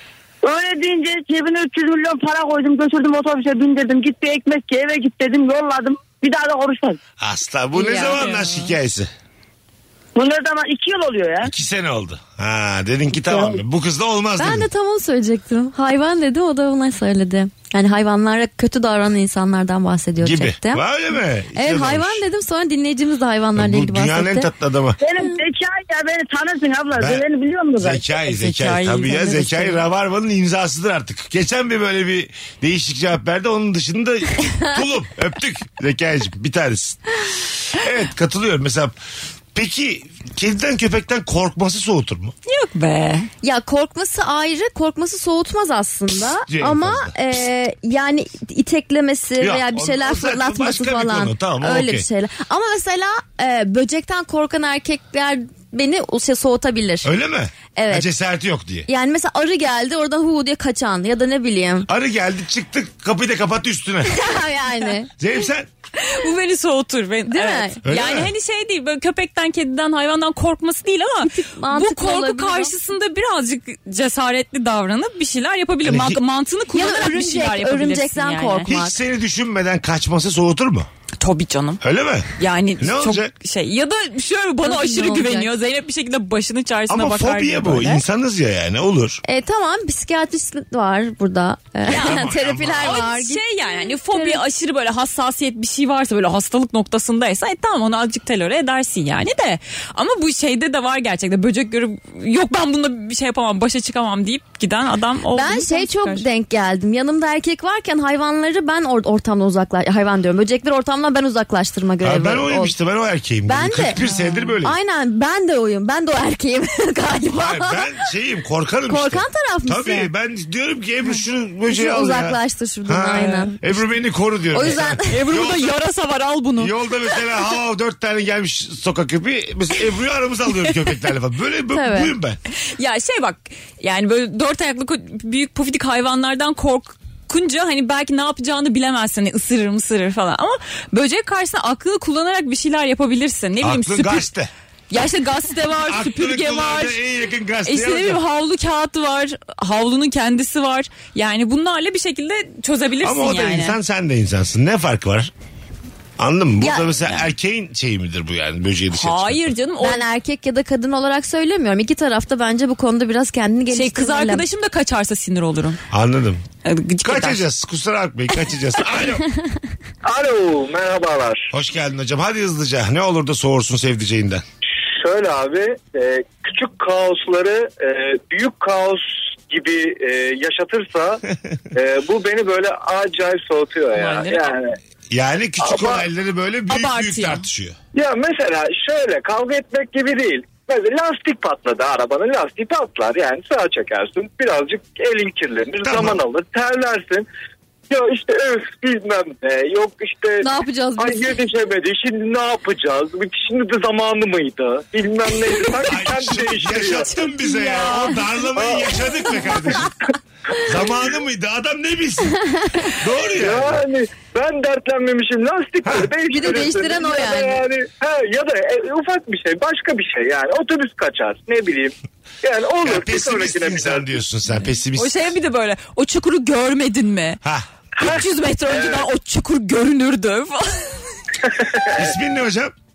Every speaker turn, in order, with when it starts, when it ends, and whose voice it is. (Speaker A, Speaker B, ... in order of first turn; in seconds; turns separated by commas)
Speaker A: 0.4-7.0, Speaker B: 7.2-9.1, Speaker C: 7.8-8.2, Speaker D: 7.9-8.7, Speaker A: 10.2-11.5, Speaker B: 11.4-14.7, Speaker A: 13.2-13.6, Speaker C: 14.4-20.8, Speaker B: 20.2-22.2, Speaker C: 21.5-24.5, Speaker B: 23.6-25.0, Speaker A: 25.0-28.0, Speaker B: 26.9-27.2, Speaker B: 27.8-39.0, Speaker D: 28.2-29.8, Speaker B: 39.5-42.3, Speaker D: 42.5-43.3, Speaker C: 43.4-57.1, Speaker B: 46.5-47.1, Speaker B: 49.4-52.1, Speaker B: 57.0-58.9, Speaker C: 57.7-58.1, Speaker C: 58.9-61.9, Speaker B: 61.9-64.2, Speaker C: 64.1-65.1, Speaker B: 65.2-65.7, Speaker D: 66.0-78.7, Speaker C: 67.3-67.8, Speaker B: 67.8-68.3, Speaker C: 71.2-72.7, Speaker B: 75.8-76.2, Speaker C: 76.7-79.0, Speaker B: 78.6-80.9, Speaker D: 81.2-81.8, Speaker B: 81.8-83.3, Speaker D: 82.4-88.0, Speaker C: 84.6-85.5, Speaker B: 86.9-89.2, Speaker C: 89.2-94.4, Speaker B: 91.8-93.1, Speaker D: 91.9-106.2, Speaker C: 105.3-112.7, Speaker B: 112.0-114.8, Speaker C: 113.5-114.0, Speaker D: 114.0-114.5, Speaker C: 114.6-117.8, Speaker B: 117.3-125.8, Speaker C: 118.9-120.1, Speaker C: 121.7-123.6, Speaker D: 123.2-123.5, Speaker C: 124.5-125.2, Speaker D: 125.1-126.7, Speaker B: 126.6-132.4, Speaker C: 131.7-132.1, Speaker D: 132.8-144.3, Speaker B: 143.6-144.5, Speaker D: 144.9-147.0, Speaker B: 145.8-148.2, Speaker D: 147.7-153.8, Speaker B: 153.0-155.3, Speaker B: 156.2-159.5, Speaker C: 156.6-156.9, Speaker D: 158.9-160.0, Speaker C: 159.8-164.4, Speaker D: 163.7-165.8, Speaker B: 165.9-166.4, Speaker D: 166.6-167.4, Speaker B: 167.0-169.2, Speaker E: 170.0-171.5, Speaker B: 171.5-174.4, Speaker E: 174.9-181.2, Speaker E: 181.7-184.7, Speaker D: 183.9-184.5, Speaker B: 185.1-187.8, Speaker E: 185.6-186.0, Speaker D: 186.7-187.4, Speaker E: 187.9-197.3, Speaker B: 195.8-196.2, Speaker E: 197.9-200.4, Speaker C: 200.4-201.3, Speaker E: 201.0-207.1, Speaker B: 205.8-209.9, Speaker D: 207.2-208.2, Speaker E: 208.5-209.9, Speaker B: 210.6-212.4, Speaker C: 212.7-212.9, Speaker B: 212.9-213.8, Speaker E: 213.3-224.1, Speaker B: 215.8-216.1, Speaker C: 216.3-217.6, Speaker B: 222.8-225.2, Speaker D: 224.9-227.4, Speaker D: 228.0-231.0, Speaker E: 228.7-229.1, Speaker E: 231.4-232.1, Speaker B: 231.8-232.7